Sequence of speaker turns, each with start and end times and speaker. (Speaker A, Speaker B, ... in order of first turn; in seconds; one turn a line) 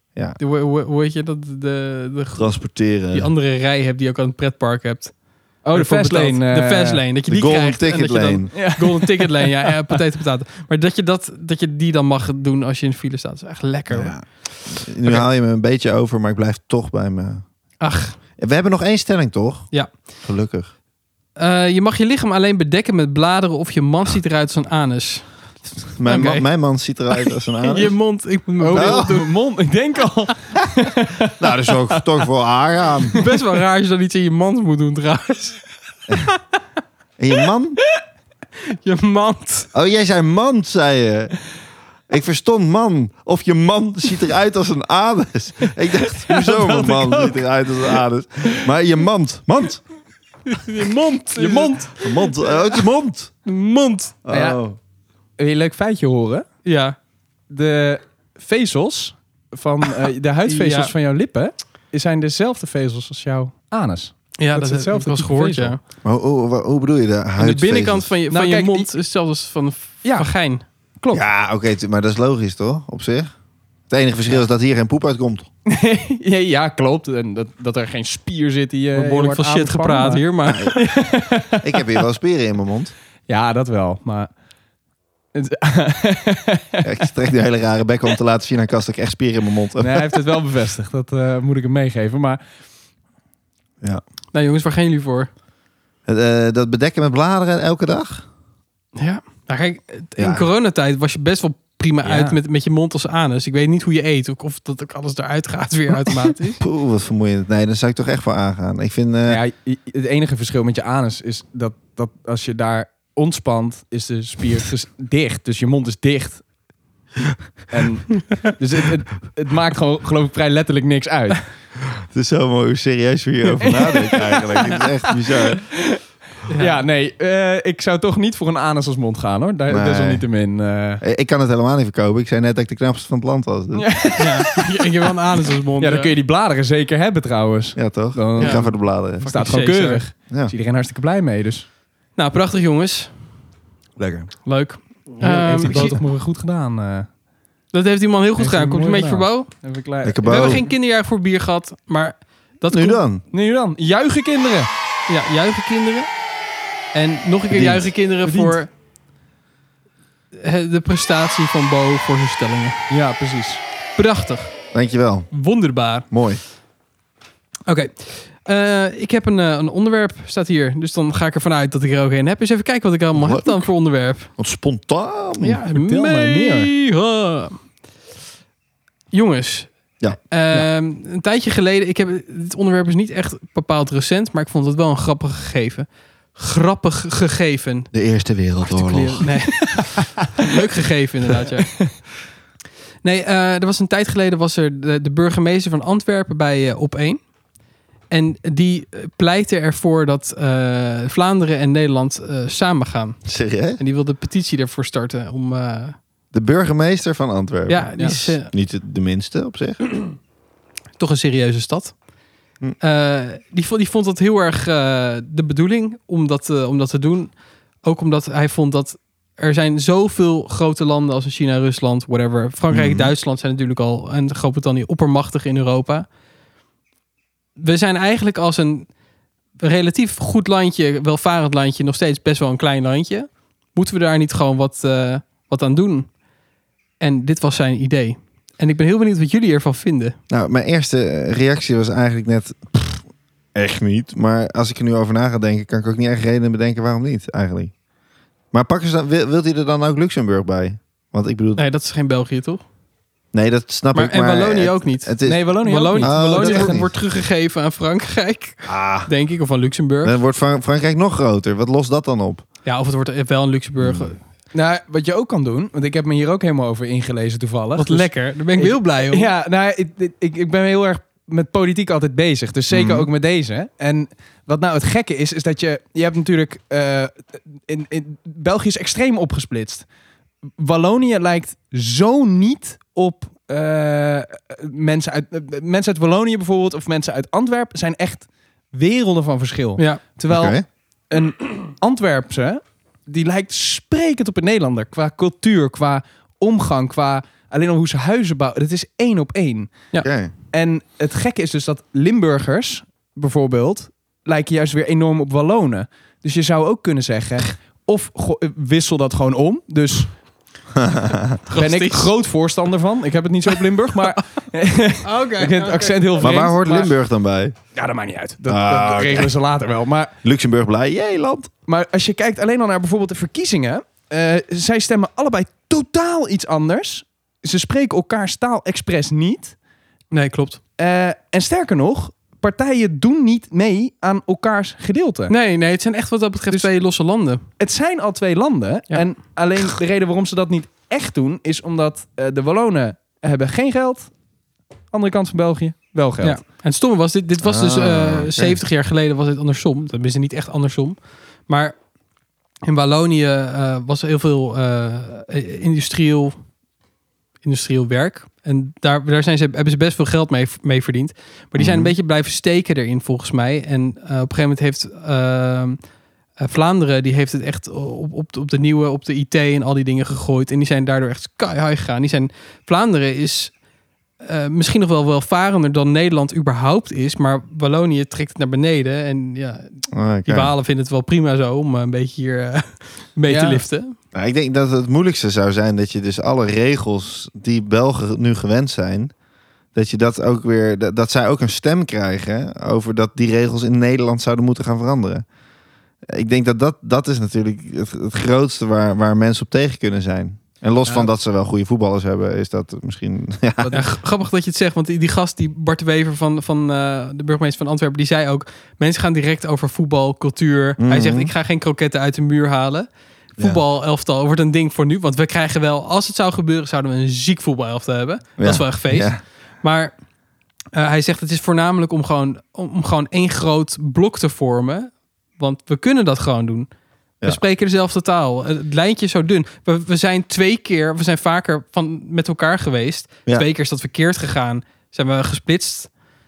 Speaker A: 0.4-2.6
Speaker B: 2.4-3.3
Speaker A: 3.1-14.3
Speaker C: 5.6-7.0
Speaker B: 7.3-8.5
Speaker C: 8.5-10.0
Speaker B: 13.9-17.4
Speaker A: 17.8-18.2
Speaker B: 18.4-19.7
Speaker B: 20.2-20.7
Speaker A: 21.4-25.5
Speaker B: 26.0-28.0
Speaker A: 26.0-26.5
Speaker A: 27.6-29.3
Speaker C: 28.6-32.1
Speaker B: 28.7-29.2
Speaker B: 31.4-33.2
Speaker A: 33.1-35.6
Speaker B: 37.2-37.8
Speaker A: 38.8-39.7
Speaker B: 39.7-41.4
Speaker B: 42.1-49.8
Speaker A: 46.3-47.3
Speaker A: 50.5-52.5
Speaker C: 51.4-51.9
Speaker B: 52.0-53.3
Speaker A: 53.5-54.2
Speaker B: 54.2-54.8
Speaker C: 54.3-54.6
Speaker C: 55.4-56.5
Speaker A: 56.6-57.0
Speaker C: 57.5-65.8
Speaker A: 60.5-60.9
Speaker A: 64.4-65.8
Speaker B: 66.0-68.1
Speaker A: 67.4-70.6
Speaker C: 68.3-68.9
Speaker C: 70.0-70.3
Speaker B: 71.1-73.3
Speaker B: 73.9-75.5
Speaker C: 75.7-81.8
Speaker A: 79.0-80.9
Speaker B: 80.5-81.0
Speaker B: 81.6-82.9
Speaker C: 83.3-84.3
Speaker C: 85.3-86.9
Speaker B: 86.8-90.1
Speaker C: 89.8-92.4
Speaker A: 94.3-95.3
Speaker B: 96.1-98.3
Speaker A: 99.0-106.6
Speaker B: 100.2-100.5
Speaker C: 102.0-102.4
Speaker B: 106.6-109.4
Speaker C: 109.3-116.5
Speaker C: 117.7-121.4
Speaker B: 122.1-125.7
Speaker C: 123.6-126.0
Speaker A: 126.5-126.8
Speaker C: 126.6-131.0
Speaker B: 129.7-130.3
Speaker B: 131.0-134.1
Speaker C: 133.7-134.9
Speaker A: 134.2-136.1
Speaker C: 135.8-141.7
Speaker B: 137.8-139.3
Speaker A: 138.4-140.1
Speaker A: 142.2-143.2
Speaker B: 144.0-144.3
Speaker A: 144.5-146.0
Speaker C: 145.2-147.1
Speaker A: 147.7-149.5
Speaker C: 148.4-150.7
Speaker B: 150.0-150.7
Speaker A: 150.2-153.0
Speaker B: 152.7-153.2
Speaker C: 153.3-154.7
Speaker A: 155.1-156.1
Speaker A: 156.9-158.7
Speaker B: 157.5-157.9
Speaker C: 158.2-158.6
Speaker A: 160.3-162.8
Speaker C: 162.9-163.6
Speaker A: 164.0-164.6
Speaker B: 164.7-165.3
Speaker A: 165.3-166.1
Speaker B: 166.1-166.4
Speaker A: 167.7-174.3
Speaker B: 173.2-173.6
Speaker B: 174.4-175.6
Speaker A: 175.4-177.6
Speaker C: 175.7-176.7
Speaker A: 179.1-187.9
Speaker B: 187.9-189.3
Speaker A: 188.7-192.0
Speaker A: 193.0-197.3
Speaker A: 198.1-206.0
Speaker B: 203.2-203.8
Speaker B: 206.3-209.8
Speaker A: 207.7-208.5
Speaker A: 211.0-212.0
Speaker A: 212.8-226.1
Speaker B: 222.7-223.1
Speaker A: 227.6-228.9
Speaker A: 229.6-236.1
Speaker A: 237.0-240.2
Speaker B: 240.3-247.7
Speaker B: 248.5-251.6
Speaker A: 251.6-252.6
Speaker B: 253.3-256.9
Speaker A: 253.9-260.2
Speaker C: 255.2-256.9
Speaker B: 258.6-259.1
Speaker B: 260.0-262.4
Speaker A: 262.6-264.2
Speaker B: 263.8-264.2
Speaker C: 264.5-279.9
Speaker A: 267.8-269.3
Speaker B: 272.7-273.1
Speaker C: 280.6-290.6
Speaker B: 290.3-290.6
Speaker C: 291.1-299.9
Speaker B: 300.0-300.3
Speaker C: 300.5-310.1
Speaker B: 310.7-311.4
Speaker A: 311.5-312.1
Speaker C: 311.6-316.9
Speaker A: 315.0-316.5
Speaker B: 316.2-317.6
Speaker C: 317.7-320.1
Speaker B: 318.5-319.3
Speaker B: 320.2-321.5
Speaker C: 321.7-329.6
Speaker A: 330.1-330.6
Speaker C: 330.8-335.4
Speaker A: 335.3-337.4
Speaker C: 337.6-344.1
Speaker C: 344.9-346.4
Speaker A: 346.2-351.8
Speaker B: 347.4-348.6
Speaker A: 352.6-356.4
Speaker A: 357.4-365.8
Speaker B: 361.6-361.9
Speaker A: 366.4-373.6
Speaker A: 374.2-384.0
Speaker B: 379.9-380.5
Speaker C: 383.3-383.6
Speaker B: 384.1-389.1
Speaker B: 389.7-395.2
Speaker B: 396.1-403.7
Speaker C: 403.6-404.0
Speaker A: 403.7-419.9
Speaker B: 410.8-411.3
Speaker B: 418.4-419.2
Speaker A: 420.7-426.7
Speaker A: 427.2-435.9